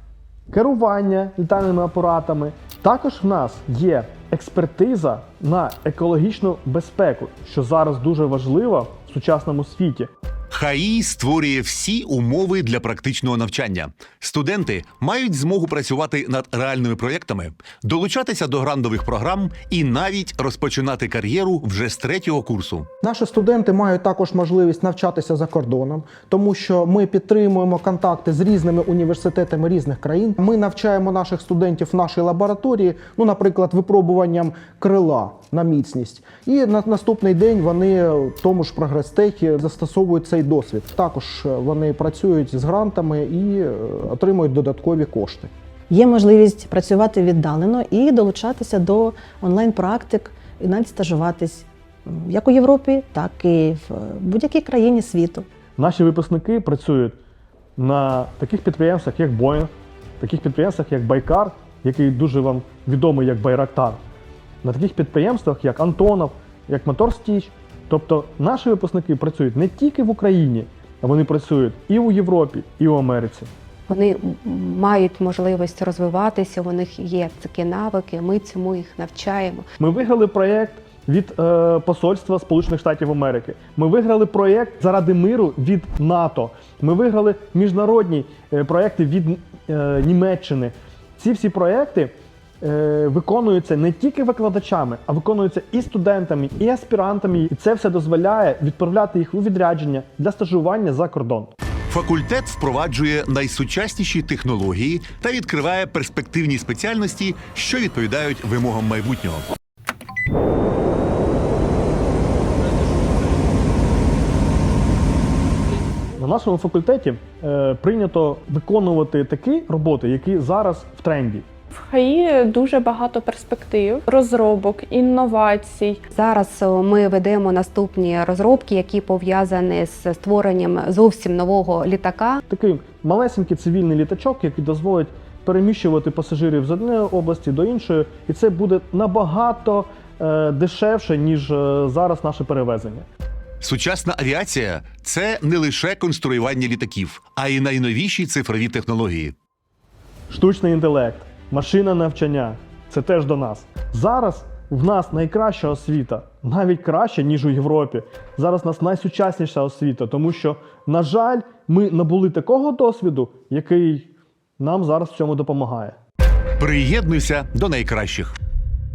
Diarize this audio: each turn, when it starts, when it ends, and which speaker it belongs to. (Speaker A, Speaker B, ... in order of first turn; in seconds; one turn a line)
Speaker A: 0.5-10.1
Speaker B: 10.5-22.9
Speaker C: 23.0-45.5
Speaker D: 45.9-55.4
Speaker A: 55.8-57.2
Speaker A: 57.8-64.0
Speaker A: 64.6-73.5
Speaker E: 73.9-79.6
Speaker A: 79.8-101.5
Speaker B: 101.9-109.5
Speaker A: 116.1-121.5
Speaker F: 121.7-126.0
Speaker E: 126.1-132.4
Speaker A: 132.5-143.1
Speaker B: 143.6-149.3
Speaker A: 150.3-165.9
Speaker B: 166.6-168.4